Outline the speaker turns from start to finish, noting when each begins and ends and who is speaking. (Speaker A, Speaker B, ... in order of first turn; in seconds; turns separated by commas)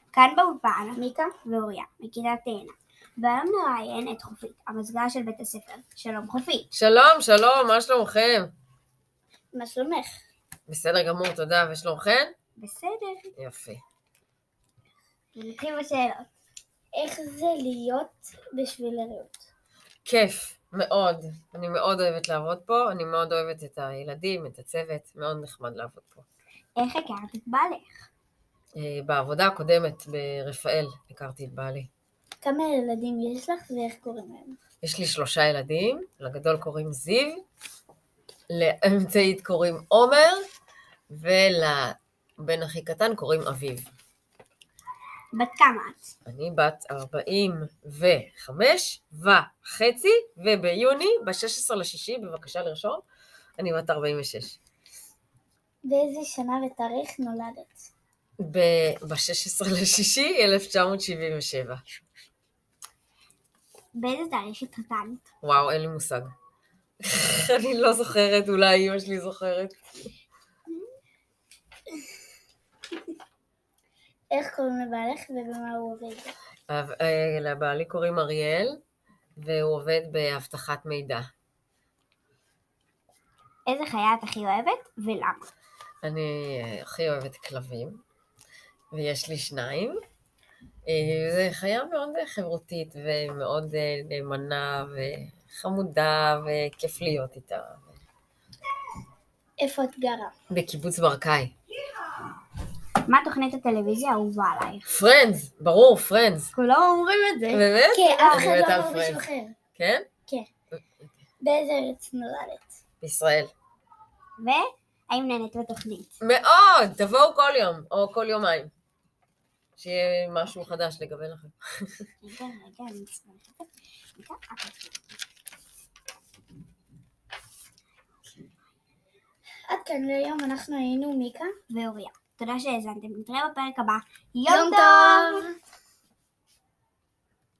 Speaker A: 0.1-6.7, Speaker B: 0.9-1.4, Speaker C: 6.7-8.5, Speaker B: 9.5-10.2, Speaker C: 10.7-12.3, Speaker A: 12.6-13.3, Speaker C: 13.3-13.8, Speaker A: 15.3-16.3, Speaker B: 16.9-19.4, Speaker C: 20.0-26.2, Speaker A: 26.8-28.1, Speaker C: 28.8-31.9, Speaker B: 32.4-34.6, Speaker C: 34.8-37.4, Speaker C: 38.5-40.5, Speaker C: 41.1-43.9, Speaker A: 45.3-46.1, Speaker C: 46.2-53.0, Speaker C: 53.6-54.6, Speaker B: 55.8-57.9, Speaker C: 58.4-61.8, Speaker A: 63.9-65.2, Speaker C: 65.4-66.3, Speaker C: 67.0-69.8, Speaker B: 74.3-76.3, Speaker C: 76.7-78.8, Speaker C: 79.4-81.3, Speaker A: 83.7-85.5, Speaker C: 86.0-88.0, Speaker C: 88.9-90.0, Speaker C: 90.9-98.0, Speaker B: 99.6-100.3, Speaker C: 100.5-101.5, Speaker A: 103.0-104.9, Speaker C: 104.8-106.5, Speaker A: 106.5-108.5, Speaker C: 107.5-109.2, Speaker B: 107.9-109.5, Speaker C: 109.8-110.1, Speaker B: 111.4-112.7, Speaker C: 113.0-113.5, Speaker A: 114.4-116.1, Speaker C: 116.2-118.7, Speaker C: 119.8-122.0, Speaker A: 122.2-125.0, Speaker B: 129.7-131.5, Speaker A: 131.7-135.4, Speaker B: 134.5-135.5